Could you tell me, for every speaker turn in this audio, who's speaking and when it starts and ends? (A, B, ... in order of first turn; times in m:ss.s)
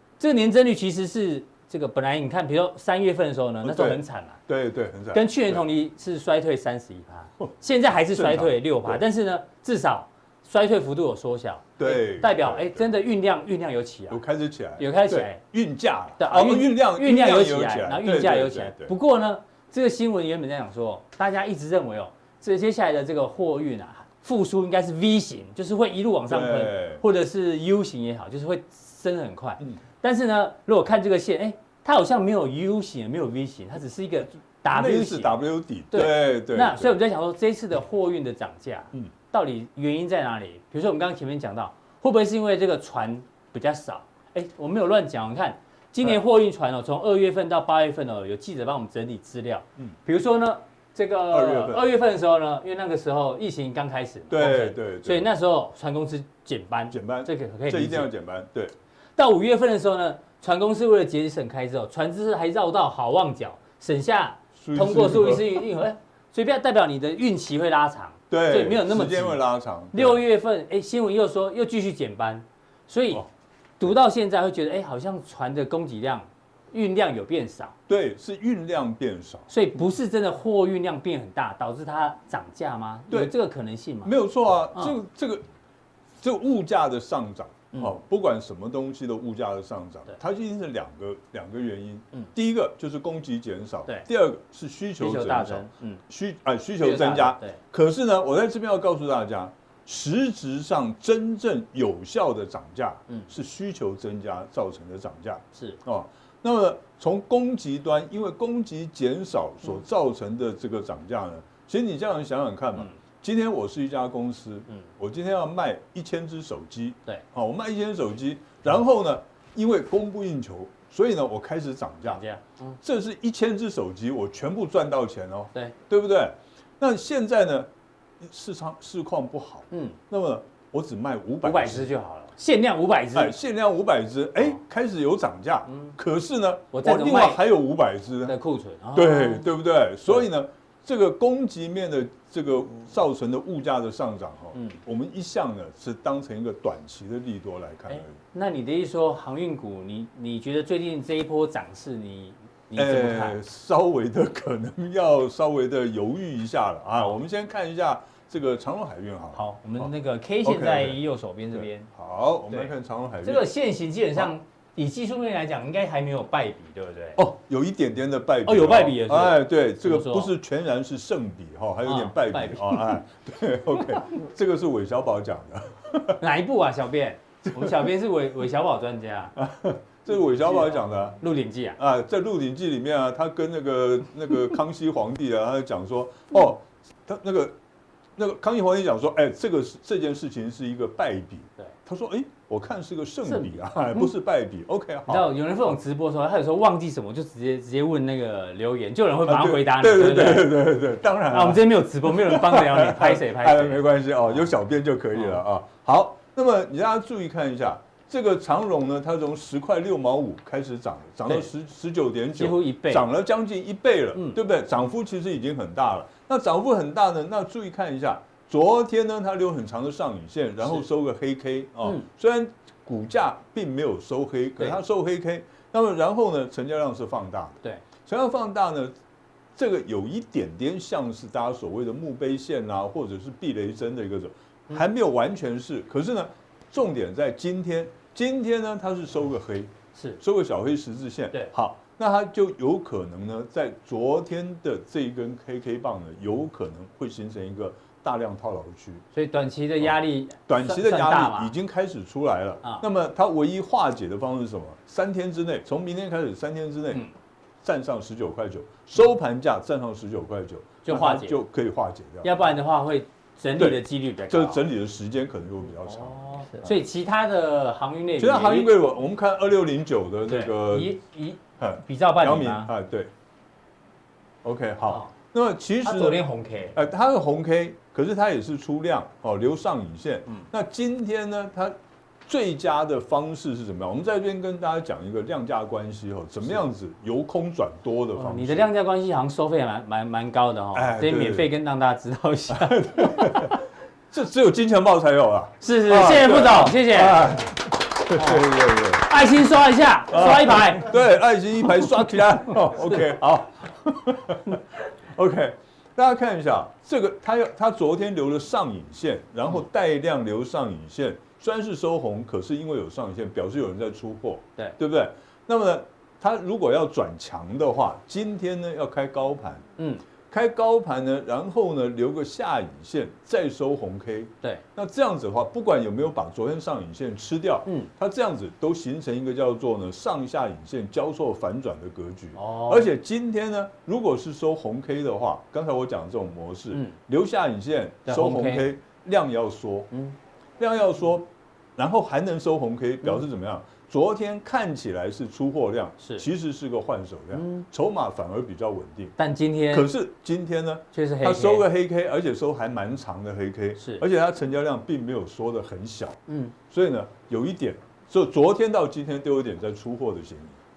0:00.2-0:04.4 A
0:03.6-0:05.7 B
0:05.1-0:14.2 A
0:08.1-0:09.0 B
0:11.8-0:12.9 B
0:14.1-0:18.9 B
0:14.8-0:15.4 A
0:16.2-0:35.4 A
0:26.3-0:27.0 B
0:34.7-0:36.9 B
0:35.9-0:58.1 A
0:51.3-0:51.9 B
0:54.3-0:55.3 B
0:56.9-0:58.7 B
0:59.2-1:09.4 A
1:04.6-1:05.6 B
1:08.3-1:10.2 B
1:09.9-1:13.2 A
1:13.8-1:17.8 A
1:17.9-1:19.5 B
1:19.5-1:24.1 A
1:24.0-1:25.4 B
1:26.2-2:02.2 B
1:35.0-1:36.0 A
1:36.8-1:37.6 A
2:02.0-2:02.8 A
2:02.8-2:07.7 B
2:08.2-2:11.9 B
2:09.7-2:10.0 A
2:11.4-2:13.4 A
2:13.1-2:18.4 B
2:15.7-2:16.0 A
2:16.7-2:17.4 A
2:18.3-2:19.5 A
2:19.0-2:28.2 B
2:27.9-2:33.4 A
2:32.8-2:39.9 B
2:39.3-2:41.9 A
2:40.4-2:41.0 B
2:41.5-2:43.5 B
2:43.2-2:47.2 A
2:47.2-2:56.2 B
2:48.4-2:50.3 A
2:51.8-2:53.0 A
2:56.2-2:59.3 A
2:57.6-2:57.8 B
2:59.4-3:01.2 B
3:00.5-3:01.8 A
3:01.8-3:07.6 B
3:08.2-3:15.3 B
3:13.3-3:13.6 A
3:15.1-3:20.6 A
3:19.2-3:48.9 B
3:21.3-3:24.5 A
3:25.2-3:25.4 A
3:32.4-3:33.0 A
3:49.6-4:09.0 B
4:00.0-4:00.2 A
4:09.2-4:11.5 A
4:10.5-4:17.0 B
4:17.6-4:22.3 B
4:20.8-4:21.4 A
4:22.2-4:24.6 A
4:23.6-4:26.8 B
4:25.9-4:28.7 A
4:28.2-4:31.0 B
4:30.3-4:32.7 A
4:31.6-4:33.1 B
4:34.4-4:36.2 B
4:35.8-4:36.8 A
4:36.8-4:41.8 B
4:42.3-4:48.7 B
4:48.2-4:53.5 A
4:50.7-4:51.5 B
4:52.5-4:53.6 B
4:54.1-4:59.1 B
4:55.6-4:57.3 A
4:58.1-4:58.4 A
4:59.1-5:00.9 A
5:00.1-5:04.6 B
5:05.2-5:19.6 B
5:19.8-5:20.0 A
5:20.3-5:39.9 B
5:32.4-5:32.9 A
5:38.1-5:38.7 A
5:40.6-5:49.2 B
5:47.3-5:47.6 A
5:49.2-5:49.9 A
5:49.7-6:00.6 B
5:50.9-5:51.6 A
5:53.8-5:54.0 A
5:56.3-5:56.5 A